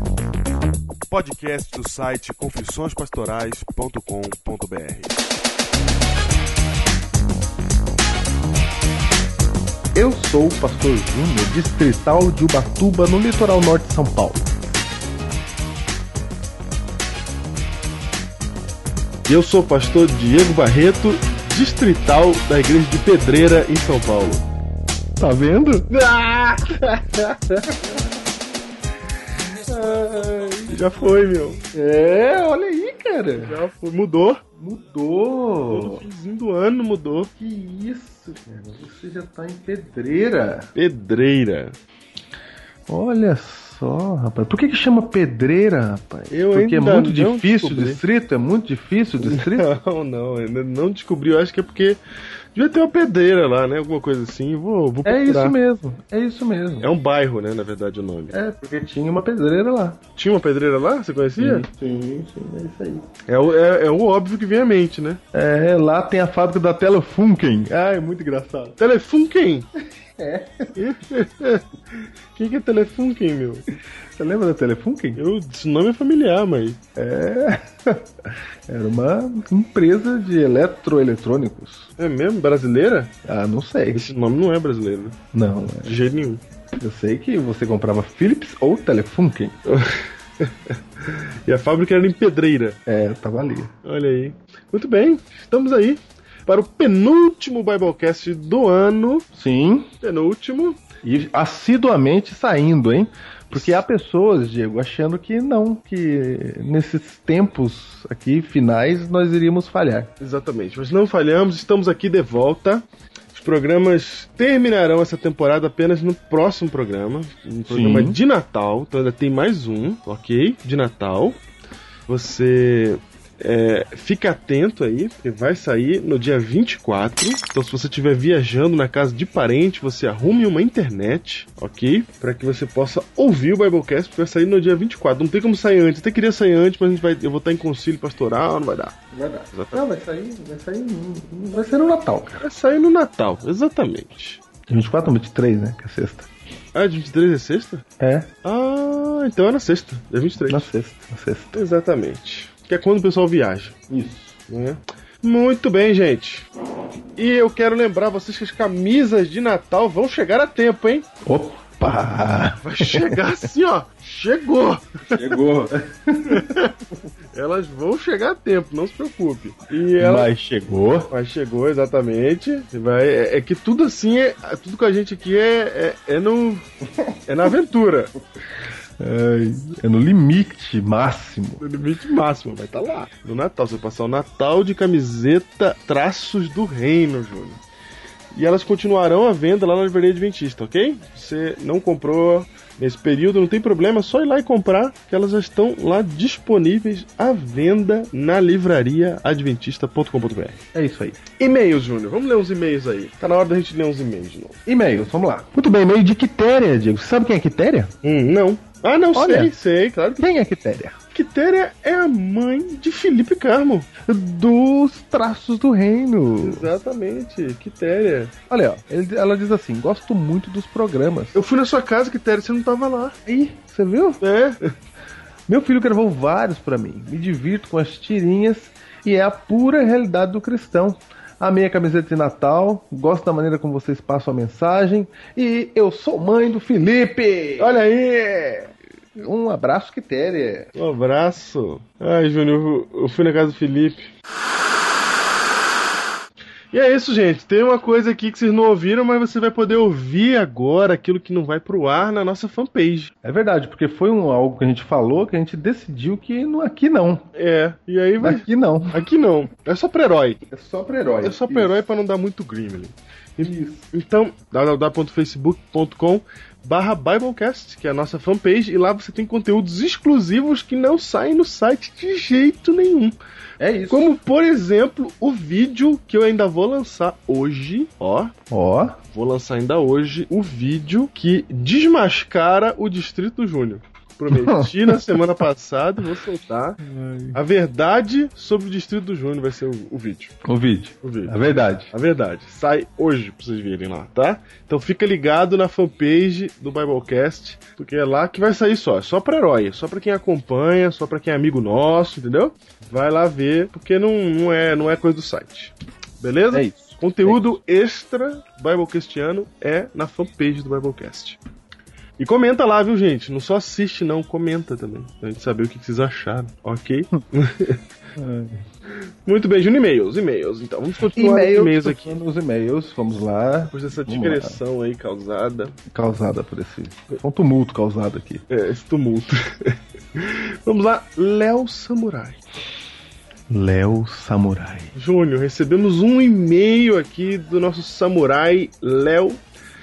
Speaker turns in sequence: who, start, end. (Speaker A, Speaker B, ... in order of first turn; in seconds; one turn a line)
Speaker A: 1.1-5.2
Speaker B: 9.9-14.5
Speaker A: 19.3-24.5
Speaker B: 25.2-25.9
Speaker A: 25.9-27.9
Speaker B: 27.7-28.0
Speaker B: 29.6-30.8
Speaker A: 30.7-31.6
Speaker B: 31.7-33.6
Speaker A: 33.4-34.4
Speaker B: 34.5-36.0
Speaker A: 35.7-37.3
Speaker B: 37.4-40.7
Speaker A: 40.8-41.7
Speaker B: 42.9-49.7
Speaker A: 46.3-48.0
Speaker A: 49.2-52.0
Speaker A: 52.5-55.5
Speaker B: 55.0-56.9
Speaker A: 56.8-58.3
Speaker B: 58.3-60.0
Speaker A: 60.2-61.6
Speaker B: 61.4-63.0
Speaker A: 63.3-65.2
Speaker B: 65.3-68.8
Speaker A: 68.8-69.7
Speaker B: 70.2-70.7
Speaker A: 70.8-71.6
Speaker A: 72.3-73.7
Speaker B: 74.2-75.2
Speaker A: 75.2-76.8
Speaker B: 77.0-81.9
Speaker A: 82.0-83.1
Speaker B: 83.2-84.1
Speaker A: 83.9-85.2
Speaker B: 85.3-86.0
Speaker A: 85.8-86.4
Speaker B: 86.8-89.5
Speaker A: 89.7-92.8
Speaker B: 92.8-93.7
Speaker A: 93.8-99.2
Speaker B: 99.3-99.9
Speaker A: 100.0-100.8
Speaker B: 101.0-110.1
Speaker A: 103.5-103.8
Speaker A: 110.2-121.4
Speaker B: 117.7-118.2
Speaker A: 122.1-138.9
Speaker B: 139.1-142.4
Speaker A: 139.5-139.8
Speaker A: 142.4-144.4
Speaker B: 144.7-146.3
Speaker A: 146.7-147.8
Speaker B: 148.0-148.3
Speaker A: 148.4-150.7
Speaker B: 150.4-151.6
Speaker A: 151.5-153.8
Speaker B: 153.9-154.4
Speaker A: 154.5-156.5
Speaker A: 157.2-161.1
Speaker B: 161.2-163.2
Speaker A: 162.6-165.3
Speaker B: 165.1-166.6
Speaker A: 166.3-166.7
Speaker A: 167.3-170.3
Speaker B: 170.0-171.1
Speaker A: 171.1-176.6
Speaker A: 177.2-178.1
Speaker B: 179.0-181.6
Speaker A: 181.6-187.6
Speaker A: 188.3-200.6
Speaker B: 200.7-201.2
Speaker A: 201.4-204.6
Speaker B: 204.7-207.9
Speaker A: 208.0-210.2
Speaker B: 209.1-209.5
Speaker B: 210.2-211.0
Speaker A: 211.1-213.9
Speaker B: 214.0-216.7
Speaker A: 216.4-218.3
Speaker B: 218.5-221.4
Speaker A: 221.3-223.2
Speaker B: 223.2-224.2
Speaker A: 224.2-224.7
Speaker B: 225.5-237.7
Speaker A: 237.6-238.7
Speaker B: 239.2-240.7
Speaker A: 240.8-244.1
Speaker A: 246.7-253.1
Speaker B: 253.2-257.2
Speaker A: 257.3-260.4
Speaker B: 258.2-259.0
Speaker B: 260.5-261.7
Speaker A: 261.2-273.1
Speaker B: 263.4-263.8
Speaker B: 273.6-274.1
Speaker A: 273.9-278.3
Speaker B: 278.5-279.0
Speaker A: 279.1-286.8
Speaker B: 284.3-285.2
Speaker B: 286.8-287.4
Speaker A: 287.3-290.3
Speaker B: 290.4-291.9
Speaker A: 291.0-311.4
Speaker B: 306.5-307.4
Speaker A: 312.2-317.8
Speaker B: 318.1-318.6
Speaker A: 319.2-322.2
Speaker B: 321.0-324.6
Speaker A: 323.7-325.8
Speaker B: 325.9-328.4
Speaker A: 328.5-332.4
Speaker B: 333.5-334.9
Speaker A: 334.9-339.4